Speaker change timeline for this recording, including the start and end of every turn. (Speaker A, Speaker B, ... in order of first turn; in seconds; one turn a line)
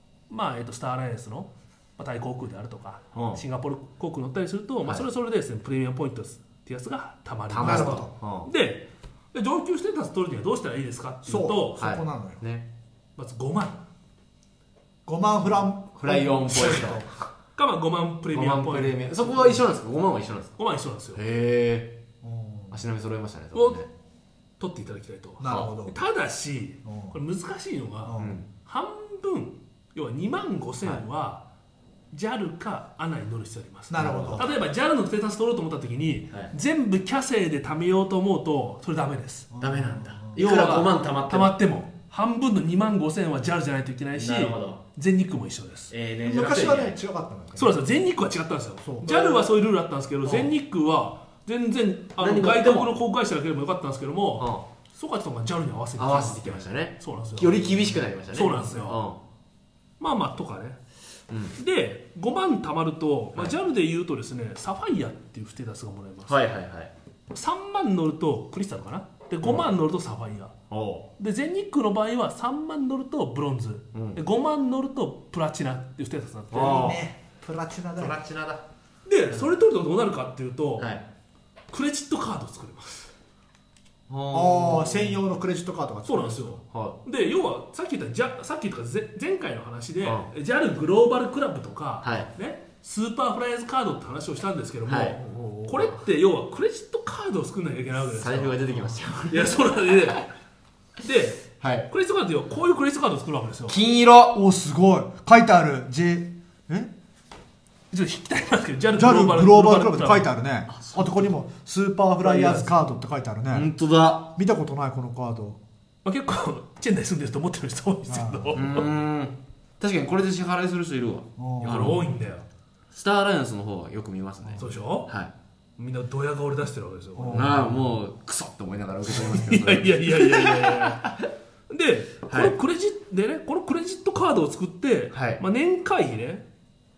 Speaker A: 0.3-11.8
Speaker B: 3.1-3.4
Speaker B: 7.5-8.5
Speaker C: 7.6-8.2
Speaker C: 11.2-12.4
Speaker B: 11.8-12.7
Speaker A: 13.2-13.8
Speaker C: 15.1-17.1
Speaker B: 15.9-17.1
Speaker A: 17.6-19.6
Speaker B: 18.3-20.6
Speaker A: 20.6-21.2
Speaker B: 21.1-21.9
Speaker C: 22.2-22.8
Speaker B: 22.7-23.9
Speaker A: 23.5-23.9
Speaker A: 24.6-31.4
Speaker C: 25.4-25.9
Speaker B: 25.4-25.7
Speaker C: 26.9-27.2
Speaker C: 28.1-28.4
Speaker B: 28.2-28.5
Speaker A: 32.1-39.5
Speaker C: 33.9-34.5
Speaker B: 33.9-34.5
Speaker C: 39.5-40.4
Speaker B: 39.6-41.5
Speaker A: 40.4-45.9
Speaker B: 44.2-44.8
Speaker B: 45.9-47.0
Speaker C: 46.2-47.8
Speaker A: 47.6-57.6
Speaker C: 48.8-49.1
Speaker B: 49.0-49.5
Speaker B: 50.2-50.5
Speaker B: 52.2-53.0
Speaker B: 54.4-54.7
Speaker B: 56.0-59.2
Speaker A: 58.3-59.0
Speaker A: 60.0-60.8
Speaker B: 61.3-61.5
Speaker A: 61.6-66.4
Speaker B: 66.3-66.9
Speaker A: 67.3-70.5
Speaker B: 70.7-71.1
Speaker A: 71.2-77.0
Speaker B: 73.9-74.2
Speaker B: 76.5-77.0
Speaker C: 76.5-78.2
Speaker B: 78.0-78.6
Speaker A: 79.1-80.9
Speaker B: 80.8-81.0
Speaker A: 81.7-83.1
Speaker B: 84.1-85.2
Speaker C: 84.3-86.6
Speaker A: 86.0-98.6
Speaker B: 86.7-87.0
Speaker B: 90.0-90.3
Speaker B: 92.0-92.3
Speaker B: 94.9-96.0
Speaker B: 98.2-100.2
Speaker A: 99.3-100.3
Speaker A: 101.0-103.8
Speaker B: 101.6-101.9
Speaker B: 103.7-104.4
Speaker C: 104.3-106.9
Speaker A: 107.9-110.3
Speaker C: 109.0-113.7
Speaker B: 110.7-111.3
Speaker A: 112.2-112.8
Speaker B: 113.5-114.3
Speaker C: 114.3-115.6
Speaker A: 116.0-118.9
Speaker C: 118.1-118.7
Speaker B: 118.5-122.1
Speaker C: 121.4-122.2
Speaker A: 121.6-122.4
Speaker B: 122.9-125.3
Speaker C: 124.4-124.7
Speaker A: 124.6-125.1
Speaker A: 125.8-127.6
Speaker C: 127.2-127.7
Speaker B: 127.3-130.8
Speaker A: 129.1-131.1
Speaker A: 131.7-136.5
Speaker B: 132.3-132.5
Speaker B: 135.1-135.4